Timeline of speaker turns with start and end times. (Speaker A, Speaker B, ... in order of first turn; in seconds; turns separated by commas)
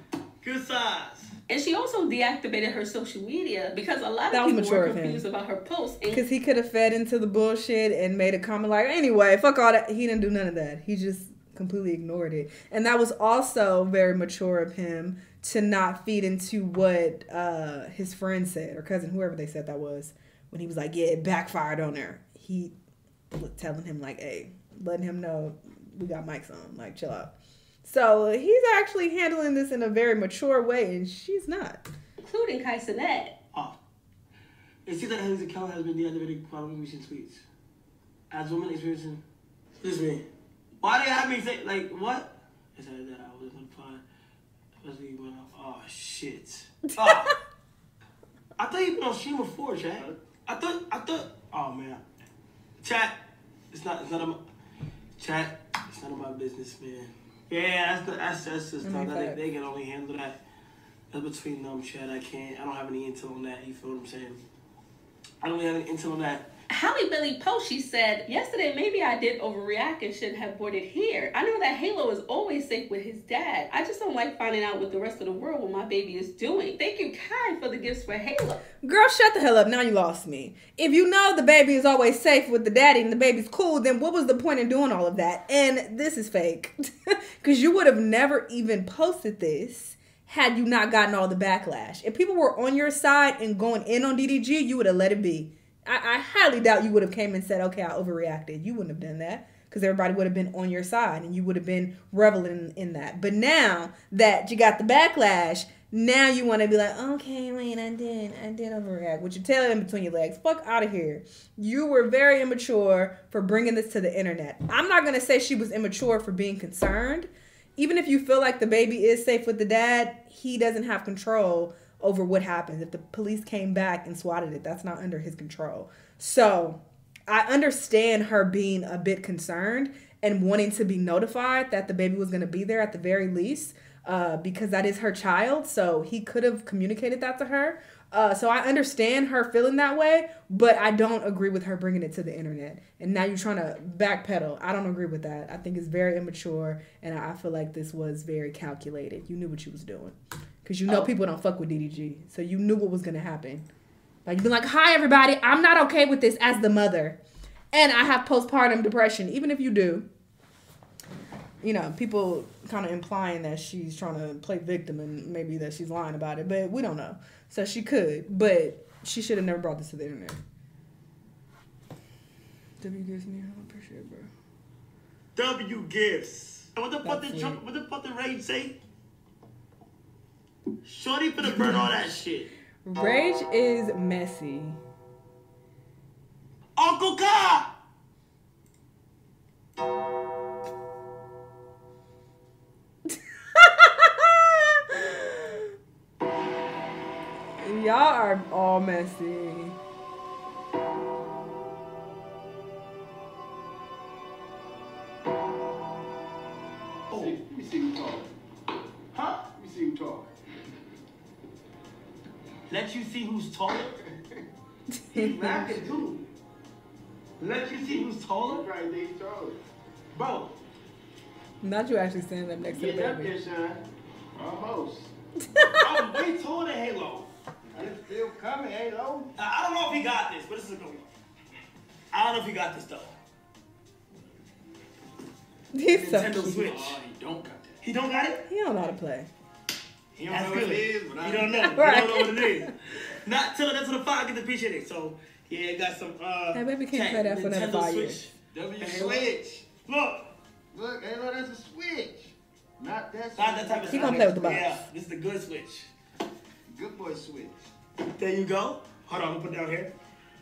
Speaker A: 0.4-1.3, Speaker B: 1.5-6.2, Speaker C: 4.3-5.2, Speaker C: 6.1-22.7, Speaker C: 23.3-31.8, Speaker B: 32.2-33.3, Speaker A: 34.9-37.4, Speaker A: 38.3-39.2, Speaker A: 39.8-40.2, Speaker A: 40.8-44.0, Speaker A: 44.8-47.3, Speaker A: 48.6-52.0, Speaker D: 49.8-50.2, Speaker A: 52.8-53.2, Speaker A: 53.7-54.4, Speaker A: 55.2-60.4, Speaker C: 58.8-59.4, Speaker A: 61.1-64.4, Speaker A: 65.4-66.5, Speaker B: 66.7-78.6, Speaker C: 78.8-86.7, Speaker C: 87.4-153.6, Speaker C: 154.2-157.2, Speaker C: 157.7-160.1, Speaker C: 161.6-170.4, Speaker C: 172.8-174.3, Speaker A: 175.3-178.8, Speaker C: 177.0-177.6, Speaker A: 180.8-182.5, Speaker C: 181.4-181.9, Speaker C: 182.8-184.8, Speaker A: 186.8-187.7, Speaker C: 193.1-195.6, Speaker C: 197.6-199.8, Speaker A: 207.1-207.4, Speaker D: 207.1-208.3, Speaker A: 209.1-209.5, Speaker D: 209.5-210.3, Speaker A: 212.7-213.9, Speaker C: 214.9-215.6, Speaker A: 215.1-216.2, Speaker D: 215.4-216.0, Speaker A: 217.4-218.7, Speaker D: 217.9-219.6, Speaker A: 220.1-220.5, Speaker C: 221.6-223.4, Speaker D: 222.8-223.8, Speaker D: 224.3-225.1, Speaker A: 225.8-227.3, Speaker D: 227.7-229.3, Speaker A: 229.3-231.1, Speaker A: 232.1-233.2, Speaker C: 235.7-236.7, Speaker A: 235.9-237.0, Speaker D: 236.2-237.8, Speaker A: 237.8-238.4, Speaker C: 238.5-239.3, Speaker D: 240.1-242.0, Speaker A: 240.2-250.3, Speaker C: 241.5-242.7, Speaker C: 246.5-248.3, Speaker D: 248.5-249.5, Speaker D: 250.7-254.7, Speaker A: 253.3-255.9, Speaker C: 253.9-254.8, Speaker D: 256.7-257.6, Speaker A: 258.1-259.9